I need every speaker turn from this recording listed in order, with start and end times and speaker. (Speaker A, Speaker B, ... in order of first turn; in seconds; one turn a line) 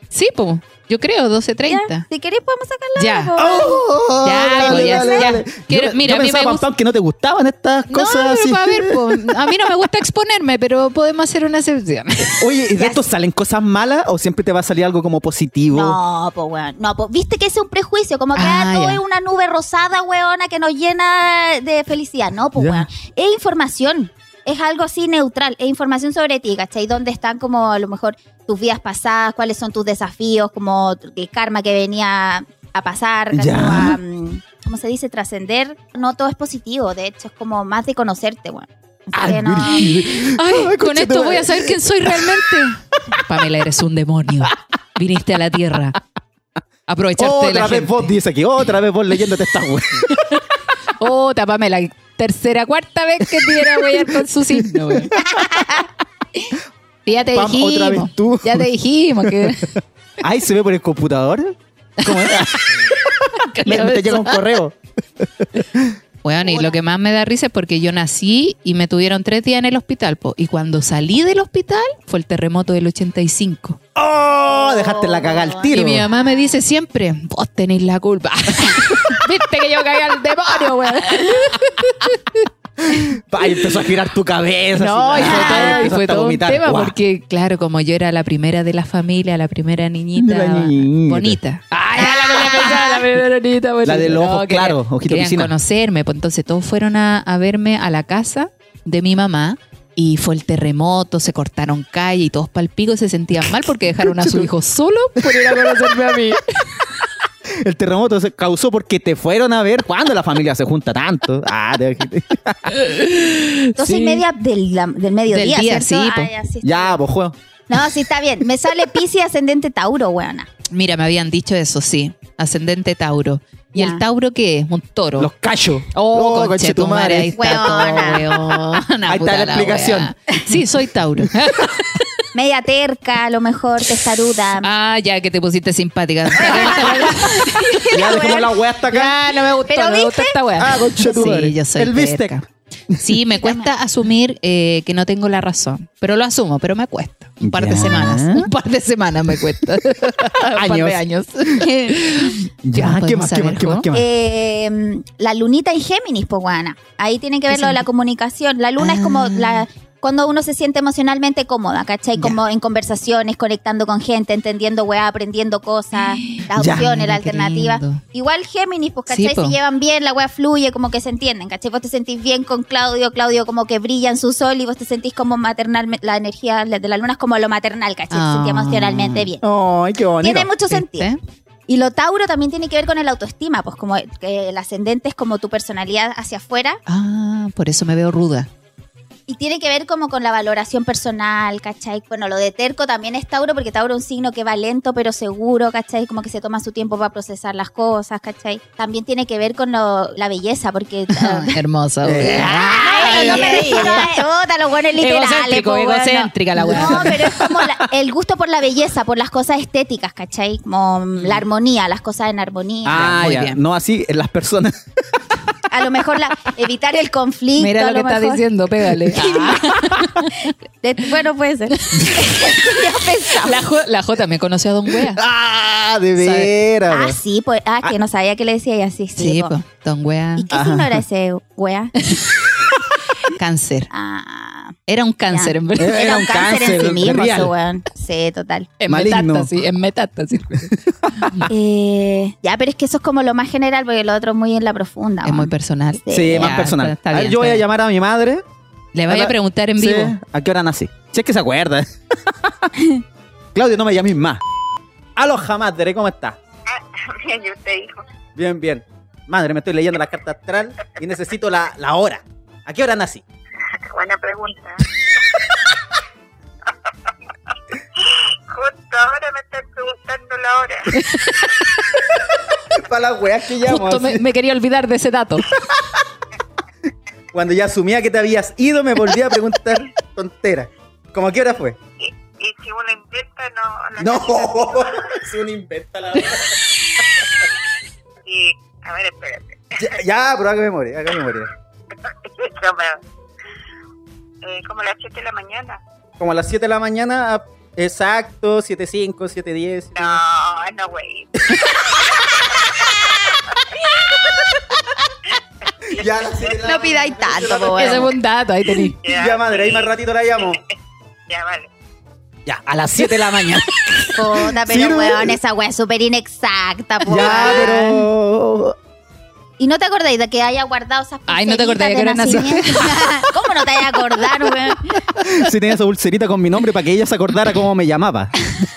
Speaker A: 0.1-2.0
Speaker B: 1.7-3.8
Speaker A: 3.0-3.3
Speaker C: 3.4-9.3
Speaker A: 4.2-6.6
Speaker B: 4.5-5.4
Speaker A: 7.9-12.4
Speaker C: 12.4-16.0
Speaker B: 15.7-39.9
Speaker A: 18.3-19.0
Speaker C: 22.6-22.9
Speaker C: 33.3-34.0
Speaker C: 39.1-42.4
Speaker A: 39.7-46.0
Speaker A: 46.9-48.1
Speaker C: 47.2-50.3
Speaker A: 51.0-55.1
Speaker C: 53.4-53.7
Speaker C: 54.7-55.6
Speaker B: 55.4-55.8
Speaker A: 57.0-59.7
Speaker C: 57.3-58.7
Speaker C: 59.2-59.6
Speaker C: 60.2-62.9
Speaker A: 62.0-62.6
Speaker A: 63.2-64.4
Speaker C: 63.6-66.0
Speaker A: 66.2-73.8
Speaker B: 66.4-66.8
Speaker C: 74.0-76.0
Speaker B: 74.5-76.4
Speaker A: 75.7-82.4
Speaker C: 82.9-86.9
Speaker A: 84.8-106.9
Speaker B: 85.2-85.9
Speaker C: 90.2-91.4
Speaker B: 92.0-93.0
Speaker C: 93.8-95.5
Speaker C: 103.9-104.5
Speaker C: 107.6-112.8
Speaker A: 112.7-114.2
Speaker B: 113.8-117.0
Speaker A: 115.3-116.3
Speaker C: 116.6-117.3
Speaker B: 117.7-120.5
Speaker A: 120.7-125.3
Speaker B: 123.8-124.0
Speaker C: 125.2-128.0
Speaker A: 125.9-132.2
Speaker B: 127.3-128.6
Speaker C: 129.1-130.1
Speaker B: 132.3-134.7
Speaker A: 134.6-137.9
Speaker B: 136.4-138.5
Speaker C: 137.9-139.1
Speaker A: 138.9-153.8
Speaker B: 139.7-140.4
Speaker C: 140.6-142.3
Speaker B: 143.3-143.7
Speaker C: 147.4-148.5
Speaker C: 150.5-151.0
Speaker C: 151.6-154.1
Speaker B: 153.9-179.4
Speaker A: 157.5-157.8
Speaker A: 158.8-159.6
Speaker A: 166.2-168.0
Speaker C: 166.6-166.9
Speaker A: 169.1-169.6
Speaker A: 178.1-179.3
Speaker C: 179.4-180.5
Speaker B: 180.2-181.1
Speaker A: 180.7-181.2
Speaker B: 181.7-186.8
Speaker A: 186.9-188.5
Speaker B: 189.3-201.6
Speaker A: 201.1-204.1
Speaker C: 202.0-204.1
Speaker B: 202.2-213.1
Speaker A: 205.0-207.6
Speaker C: 206.6-207.3
Speaker C: 212.8-215.5
Speaker A: 212.9-213.6
Speaker B: 215.7-218.4
Speaker A: 217.6-220.5
Speaker B: 219.1-223.6
Speaker A: 221.8-222.2
Speaker A: 223.3-225.2
Speaker C: 225.0-227.2
Speaker A: 226.2-226.5
Speaker B: 226.9-229.5
Speaker A: 229.2-230.4
Speaker B: 230.3-231.9
Speaker C: 230.5-231.0
Speaker A: 232.0-232.3
Speaker A: 233.3-233.9
Speaker B: 233.9-234.8
Speaker A: 234.9-235.9
Speaker B: 235.3-238.7
Speaker C: 235.8-237.5
Speaker A: 238.8-241.5
Speaker C: 238.9-239.5
Speaker C: 240.5-241.5
Speaker B: 241.5-245.5
Speaker A: 245.2-247.6
Speaker B: 246.0-246.6
Speaker C: 246.1-248.4
Speaker A: 248.9-250.2
Speaker C: 249.1-252.7
Speaker C: 253.5-254.4
Speaker C: 255.2-256.4
Speaker D: 256.7-258.0
Speaker C: 258.4-263.2
Speaker D: 263.9-265.4
Speaker D: 266.7-272.1
Speaker A: 270.9-271.4
Speaker C: 272.7-274.2
Speaker A: 273.6-275.5
Speaker C: 275.5-276.0
Speaker C: 277.3-281.8
Speaker D: 282.0-285.2
Speaker C: 284.0-286.6
Speaker D: 288.2-290.0
Speaker C: 289.8-291.5
Speaker D: 291.9-293.0
Speaker D: 294.4-295.8
Speaker C: 296.2-300.2
Speaker D: 299.9-304.2
Speaker C: 305.9-308.1
Speaker D: 305.9-306.7
Speaker B: 306.6-308.1
Speaker A: 307.7-308.9
Speaker D: 309.0-310.7
Speaker C: 309.1-310.6
Speaker D: 311.3-311.7
Speaker C: 312.4-315.4
Speaker B: 314.1-317.8
Speaker C: 317.1-318.7
Speaker A: 317.2-317.9
Speaker B: 319.6-325.0
Speaker A: 321.3-323.0
Speaker C: 325.1-328.4